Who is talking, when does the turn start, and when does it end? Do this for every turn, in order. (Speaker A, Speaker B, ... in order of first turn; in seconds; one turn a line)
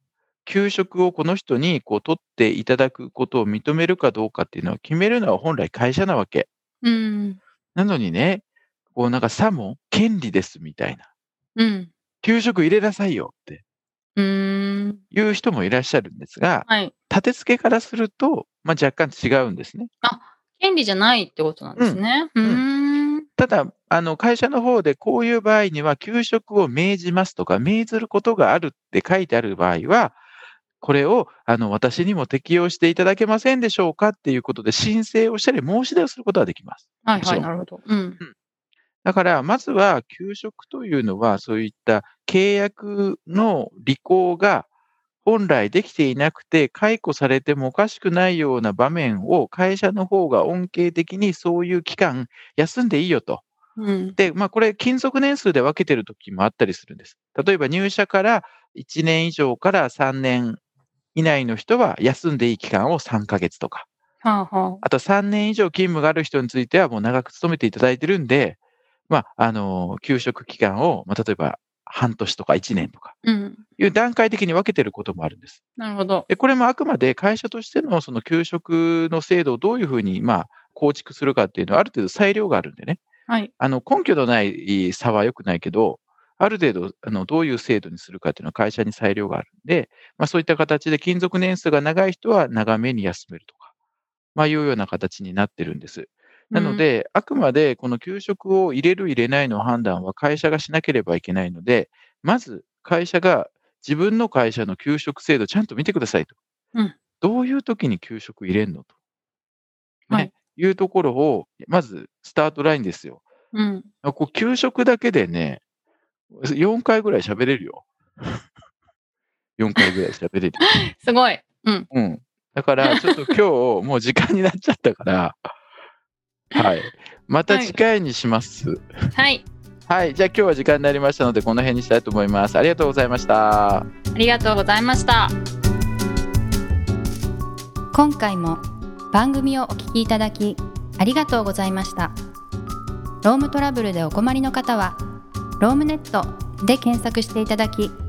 Speaker A: 0.5-6.5
Speaker B: 6.8-7.4
Speaker A: 7.8-11.1
Speaker B: 11.6-11.9
Speaker A: 12.2-13.6
Speaker B: 14.2-15.0
Speaker A: 15.1-19.9
Speaker B: 16.7-16.9
Speaker B: 20.0-23.3
Speaker A: 21.8-22.6
Speaker A: 23.4-30.2
Speaker A: 30.8-37.5
Speaker B: 37.0-38.2
Speaker A: 39.0-44.7
Speaker A: 45.2-53.4
Speaker B: 53.8-54.2
Speaker A: 54.2-60.6
Speaker A: 61.1-63.9
Speaker B: 64.2-64.8
Speaker A: 64.8-68.6
Speaker A: 69.1-73.2
Speaker B: 73.2-73.6
Speaker A: 73.8-75.6
Speaker B: 75.8-76.3
Speaker A: 76.3-83.0
Speaker A: 83.6-93.7
Speaker A: 94.3-106.4
Speaker B: 96.5-96.8
Speaker A: 107.2-108.9
Speaker A: 110.1-113.2
Speaker B: 113.5-113.9
Speaker A: 114.0-115.6
Speaker A: 116.3-118.3
Speaker A: 119.6-120.7
Speaker B: 120.6-121.9
Speaker A: 121.9-125.5
Speaker B: 122.8-123.3
Speaker A: 126.5-128.8
Speaker B: 127.5-127.8
Speaker B: 129.2-129.5
Speaker A: 129.9-133.9
Speaker B: 134.2-135.3
Speaker C: 137.9-138.6
Speaker C: 139.1-142.1
Speaker C: 143.2-145.0
Speaker C: 145.6-147.9